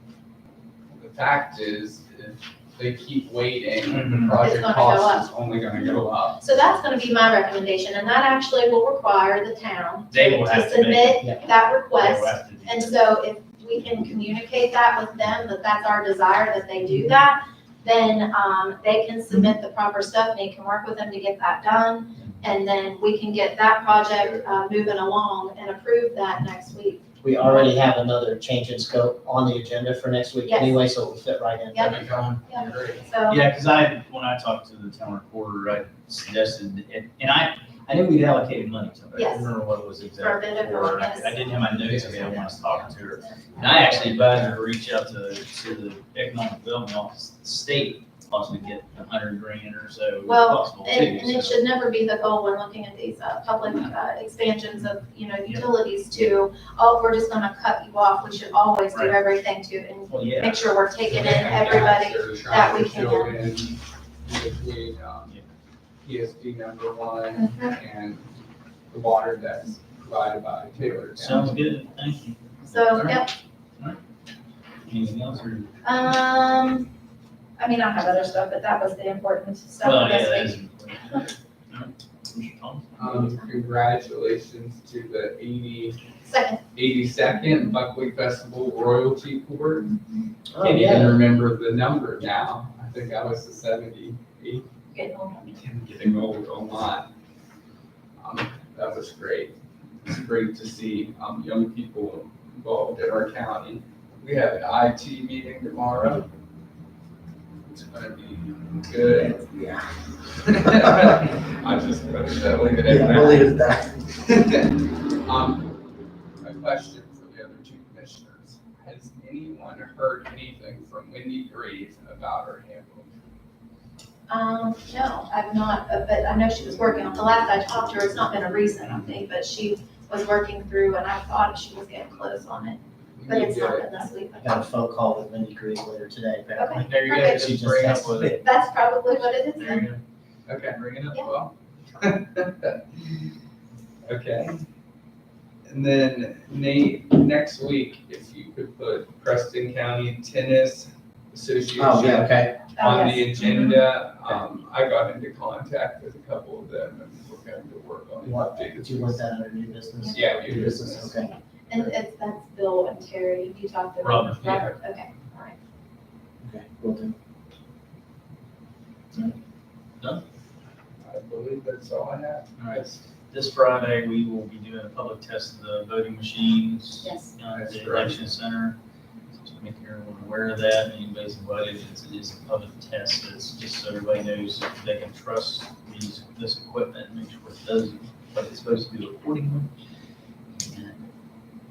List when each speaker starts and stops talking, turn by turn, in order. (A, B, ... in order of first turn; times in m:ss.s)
0:00.9-0:06.4 A
0:03.9-0:04.4 B
0:04.4-0:05.3 C
0:06.4-0:27.7 C
0:10.1-0:12.9 B
0:27.2-0:32.1 D
0:30.5-0:30.8 C
0:31.7-0:33.4 C
0:31.8-0:33.1 A
0:33.3-0:51.7 B
0:39.1-0:39.5 C
0:40.1-0:44.1 C
0:41.9-0:42.5 D
0:50.2-1:03.3 C
0:58.9-0:59.2 B
1:00.1-1:00.7 B
1:01.1-1:05.3 A
1:06.0-1:08.3 A
1:07.3-1:07.8 C
1:08.9-1:11.6 A
1:11.2-1:13.2 B
1:12.7-1:13.3 C
1:14.9-1:15.7 B
1:15.8-1:16.9 C
1:17.6-1:20.6 C
1:19.8-1:22.9 B
1:23.0-1:26.0 A
1:23.0-1:23.4 C
1:26.2-1:26.6 C
1:26.8-1:29.9 A
1:29.9-1:30.2 C
1:30.5-1:31.2 D
1:30.6-1:34.7 A
1:34.9-1:35.6 C
1:35.5-1:37.1 A
1:38.2-1:46.3 A
1:47.7-1:49.4 A
1:49.1-1:49.9 D
1:50.4-1:53.6 A
1:52.8-1:54.0 D
1:54.2-1:54.7 A
1:55.2-1:55.7 A
1:56.4-2:03.1 A
2:04.3-2:14.6 C
2:13.2-2:13.9 A
2:14.4-2:18.4 D
2:16.6-2:17.5 C
2:16.8-2:18.4 B
2:17.2-2:18.1 A
2:18.1-2:19.9 C
2:19.1-2:20.0 B
2:20.5-2:23.3 A
2:24.0-2:24.6 A
2:25.7-2:39.2 A
2:31.8-2:32.6 D
2:32.8-2:33.8 C
2:38.2-2:41.3 D
2:40.0-2:40.5 C
2:40.1-2:41.9 A
2:41.7-2:45.6 C
2:44.0-2:44.7 B
2:44.4-2:44.7 A
2:46.4-2:47.1 D
2:51.0-2:53.0 A
2:52.6-2:58.8 B
2:57.0-2:57.4 C
2:57.6-2:58.2 A
2:59.3-3:09.7 B
3:10.6-3:11.0 B